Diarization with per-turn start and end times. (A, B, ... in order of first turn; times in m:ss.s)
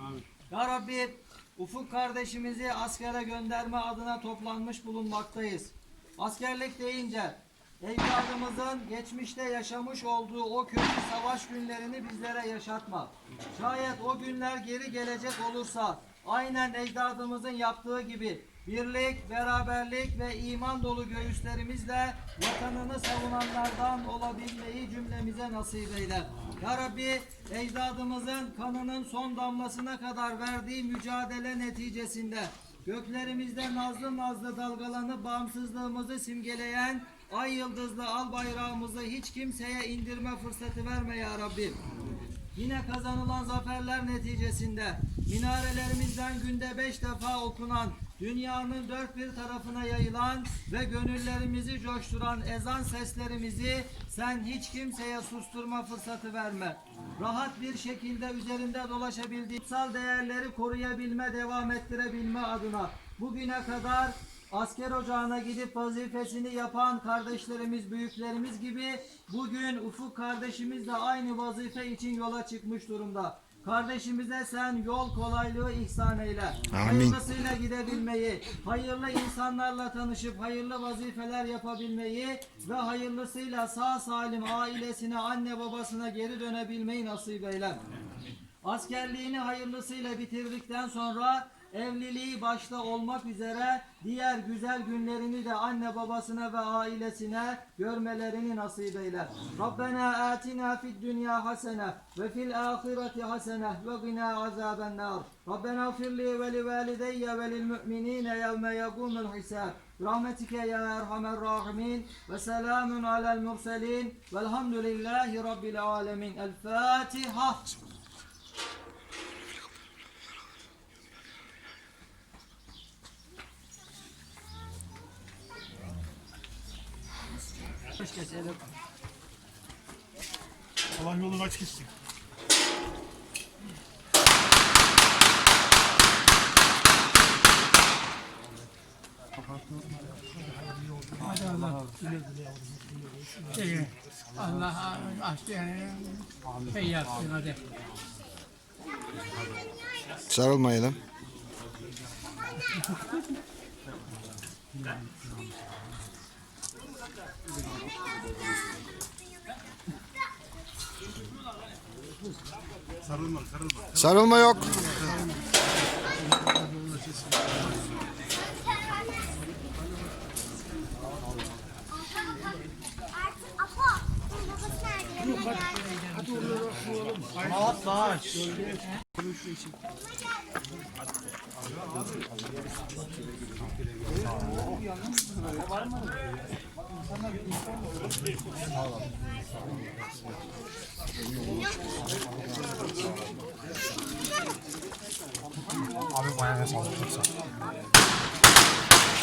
0:00.5-0:41.8 A
0:42.6-1:27.8 A
1:16.7-1:17.2 B
1:28.6-1:57.7 A
2:07.9-2:08.7 A
2:11.0-2:11.9 C
2:21.2-2:27.6 D
2:30.3-2:31.0 B
2:43.9-2:44.8 B
2:55.2-2:57.7 D
2:57.2-2:58.3 C
3:16.2-3:17.3 C